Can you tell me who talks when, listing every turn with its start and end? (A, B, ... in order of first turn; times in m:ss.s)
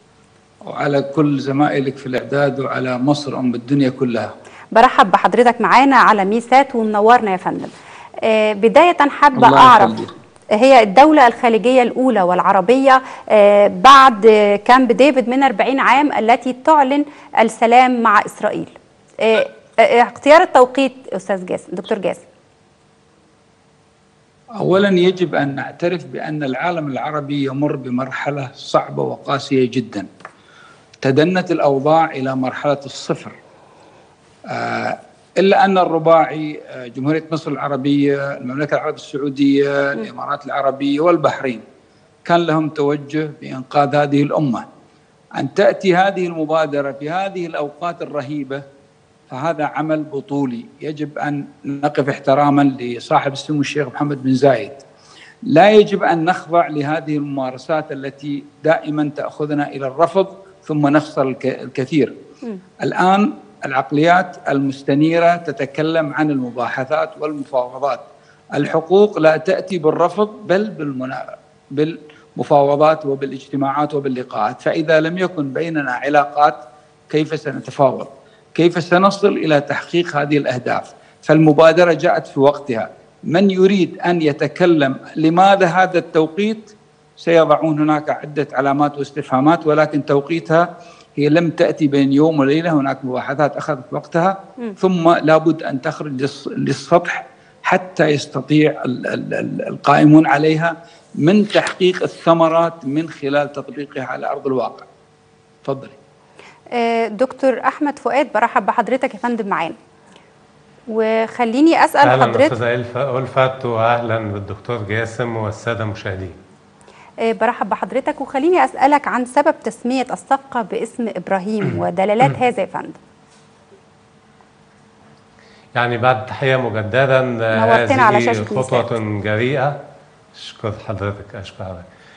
0:00.6-0:04.3 A
0:04.7-0:07.7 B
0:08.2-0:10.0 B
0:09.3-0:10.1 A
0:10.6-0:22.2 B
0:24.6-0:30.1 A
0:31.0-0:33.4 A
0:34.5-0:41.6 A
0:42.2-0:44.6 A
0:45.4-0:48.6 A
0:49.3-0:54.8 A
0:55.5-1:02.2 A
1:02.8-1:11.2 A
1:11.7-1:44.9 A
1:45.6-1:46.0 A
1:46.7-1:49.8 B
1:50.9-1:52.6 B
1:52.0-1:56.4 C
1:57.3-2:03.0 B
2:05.8-2:09.8 C
2:07.5-2:09.0 B
2:10.3-2:11.9 C